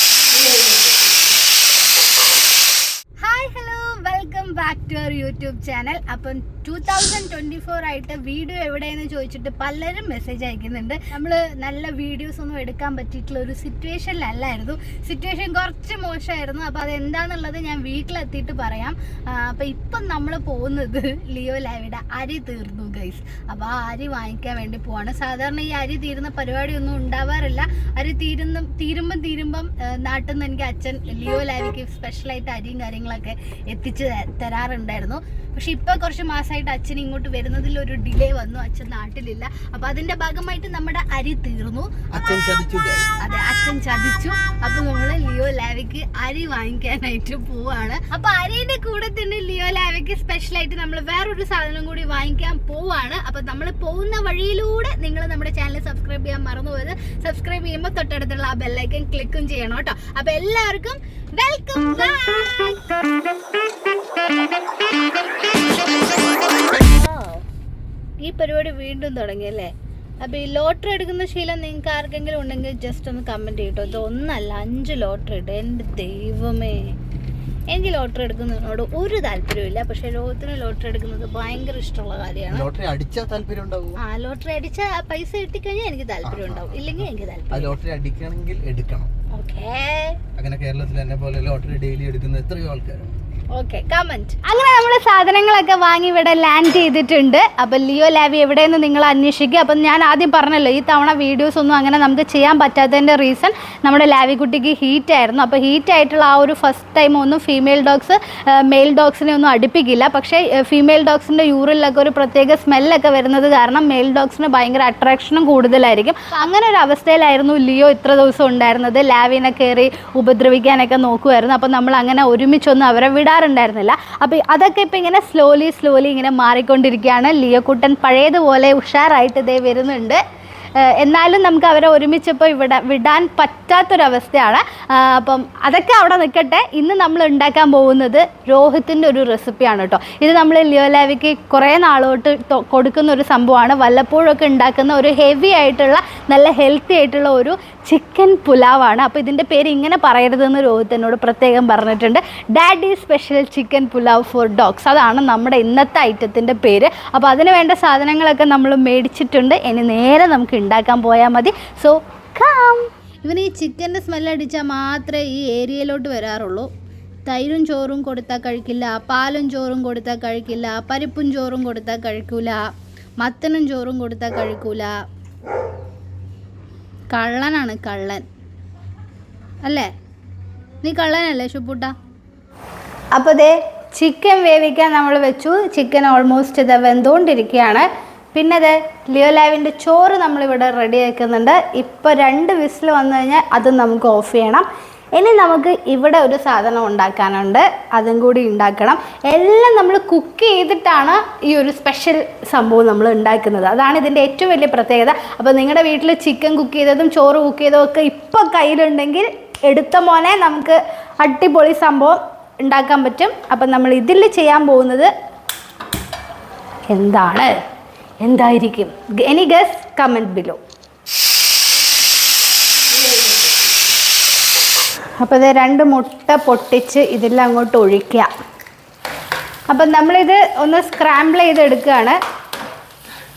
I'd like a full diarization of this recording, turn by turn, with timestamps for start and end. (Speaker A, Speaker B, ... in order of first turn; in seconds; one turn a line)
Speaker A: 3.2-42.5
Speaker B: 42.1-43.1
Speaker A: 43.2-62.9
Speaker A: 65.7-67.4
Speaker A: 68.2-77.0
Speaker A: 77.7-82.7
Speaker B: 82.5-84.0
Speaker A: 84.0-87.8
Speaker B: 86.2-89.1
Speaker A: 89.3-90.2
Speaker B: 90.4-93.1
Speaker A: 93.5-130.2
Speaker A: 130.8-166.7
Speaker A: 167.3-172.7
Speaker A: 173.2-174.9
Speaker A: 177.1-178.2
Speaker A: 179.6-179.9
Speaker A: 180.8-181.9
Speaker A: 183.1-215.1
Speaker A: 216.9-217.6
Speaker A: 218.2-220.6
Speaker A: 225.2-228.3
Speaker A: 229.7-232.2